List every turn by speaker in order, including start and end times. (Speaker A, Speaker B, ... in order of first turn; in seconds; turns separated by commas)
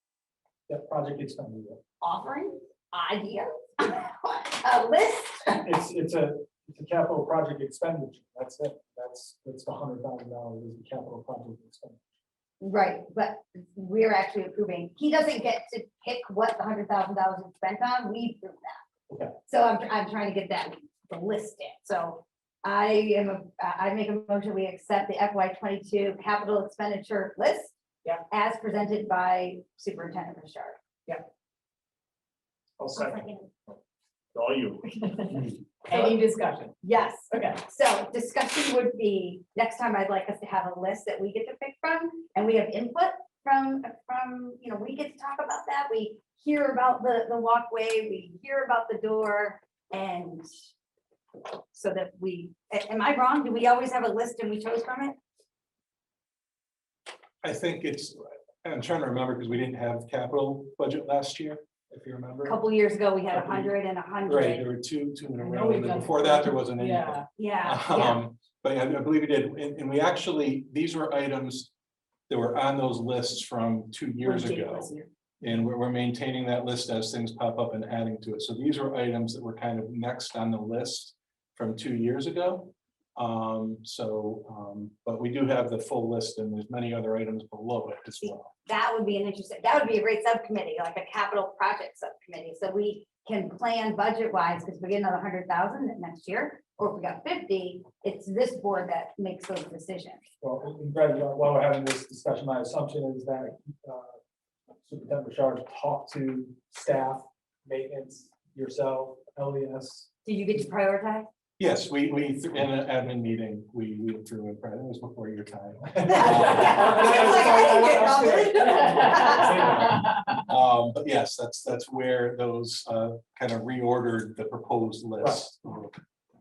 Speaker A: 0.7-1.8, Speaker B: 2.0-5.6, Speaker A: 5.7-12.0, Speaker B: 12.6-18.8, Speaker B: 19.5-27.7, Speaker B: 28.3-30.8, Speaker A: 32.8-33.8, Speaker A: 34.3-34.8, Speaker C: 34.9-36.8, Speaker B: 36.8-50.5, Speaker C: 37.3-37.6, Speaker B: 51.7-55.2, Speaker D: 57.4-62.6, Speaker B: 62.4-64.7, Speaker D: 63.3-63.7, Speaker D: 64.2-71.7, Speaker C: 65.4-67.2, Speaker B: 67.4-68.2, Speaker D: 72.3-74.9, Speaker C: 74.2-75.1, Speaker D: 75.4-88.5, Speaker B: 88.2-100.2, Speaker A: 100.4-104.2, Speaker A: 104.8-110.1, Speaker B: 110.2-111.3, Speaker D: 111.6-117.1, Speaker B: 116.1-119.9, Speaker A: 116.4-120.0, Speaker D: 120.4-126.0